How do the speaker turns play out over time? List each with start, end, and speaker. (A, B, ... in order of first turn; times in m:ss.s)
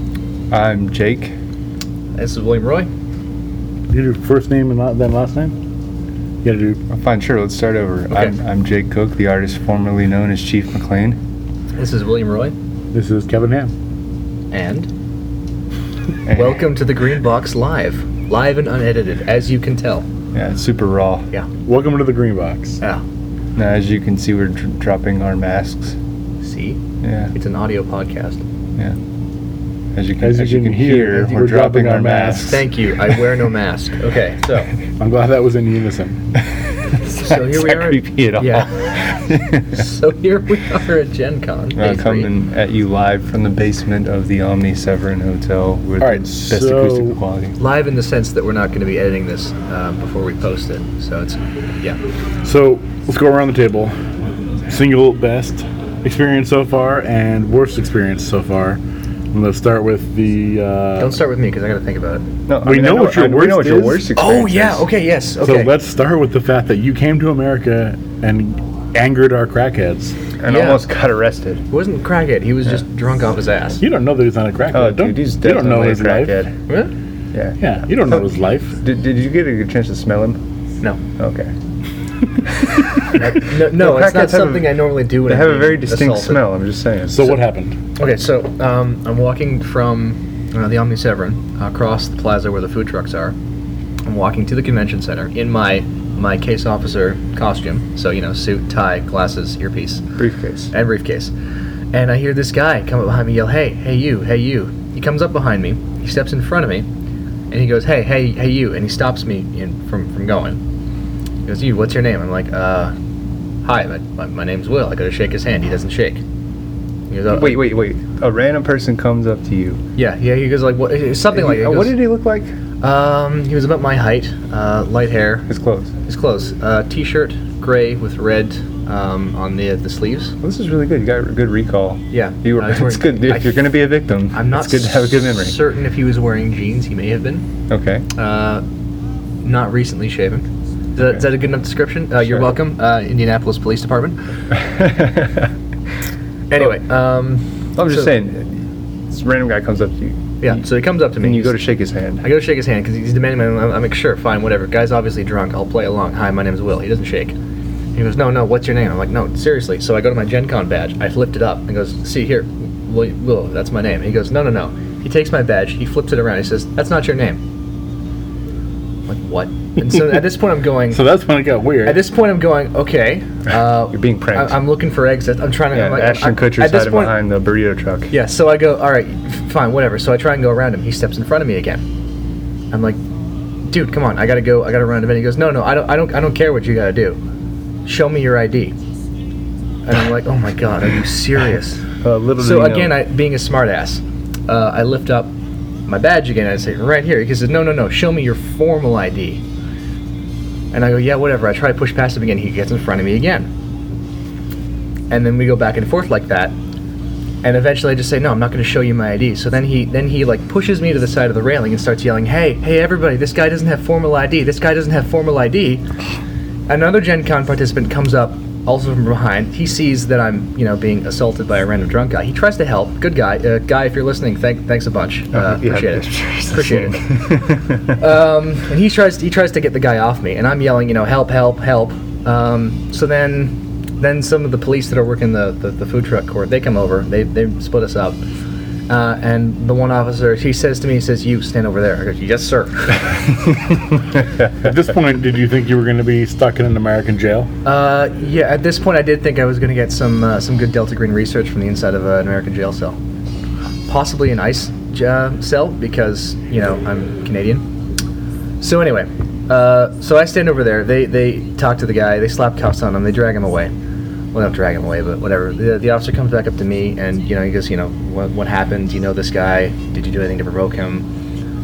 0:00.5-0:01.3 A
0:02.2-0:02.9 B
0:03.9-0:05.6 C
0:06.4-0:06.8 C
0:06.9-0:11.2 A
0:11.8-0:12.5 B
0:12.9-0:13.7 C
0:14.5-0:14.9 B
0:16.3-0:16.6 A
0:16.3-0:20.0 B
0:20.3-0:21.2 A
0:21.6-0:22.8 C
0:23.6-0:26.0 A
0:26.4-0:26.8 B
0:27.0-0:27.3 A
0:27.3-0:28.4 B
0:29.9-0:32.6 A
0:30.2-0:32.6 C
0:32.5-0:34.7 B
0:35.0-0:36.3 C
0:37.0-0:39.8 A
0:37.2-0:38.8 B
0:39.7-0:42.3 B
0:41.8-0:47.6 A
0:46.0-0:47.2 C
0:47.6-0:52.0 B
0:52.4-0:53.9 C
0:54.7-0:58.8 C
0:59.3-1:01.2 C
1:01.0-1:02.2 B
1:02.5-1:04.9 A
1:02.6-1:04.1 C
1:04.2-1:05.7 B
1:05.4-1:10.2 C
1:10.4-1:11.6 A
1:10.5-1:10.8 B
1:11.7-1:13.8 B
1:13.8-1:16.4 C
1:14.7-1:16.5 A
1:17.3-1:18.3 A
1:17.6-1:18.8 C
1:18.8-1:20.4 A
1:21.2-1:21.5 A
1:22.5-1:27.3 A
1:23.1-1:26.4 B
1:27.1-1:27.8 C
1:28.0-1:33.4 B
1:34.0-1:40.0 B
1:40.2-1:40.7 A
1:40.7-1:41.3 B
1:41.9-1:46.9 B
1:47.5-1:50.6 B
1:51.4-1:52.9 B
1:53.6-1:56.2 B
1:57.1-1:57.6 B
1:57.3-1:59.8 A
2:00.0-2:02.0 B
2:01.3-2:02.5 A
2:02.8-2:05.5 B
2:05.5-2:05.9 A
2:06.0-2:10.3 B
2:10.4-2:15.6 A
2:12.1-2:13.6 B
2:14.3-2:17.4 B
2:17.7-2:18.0 A
2:18.1-2:18.6 B
2:19.4-2:24.2 B
2:24.5-2:25.5 A
2:26.5-2:28.1 B
2:27.8-2:30.6 A
2:30.4-2:31.6 B
2:31.2-2:32.2 A
2:32.2-2:37.3 B
2:37.9-2:47.4 B
2:49.1-2:51.0 B
2:50.9-2:52.0 C
2:51.8-2:57.1 B
2:53.9-2:54.6 A
2:55.7-2:58.1 A
2:58.1-3:01.8 B
3:02.7-3:03.0 B
3:03.6-3:07.2 B
3:07.8-3:08.7 B
3:09.8-3:11.9 B
3:12.0-3:13.0 A
3:12.4-3:15.4 B
3:15.9-3:19.4 B
3:20.7-3:23.5 B
3:25.1-3:26.6 B
3:27.4-3:35.8 B
3:36.7-3:47.1 B
3:45.3-3:48.0 A
3:47.9-3:58.2 B
3:58.9-4:03.0 B
4:04.6-4:07.5 C
4:07.6-4:13.0 B
4:13.9-4:17.6 B
4:18.6-4:23.7 B
4:24.3-4:31.0 B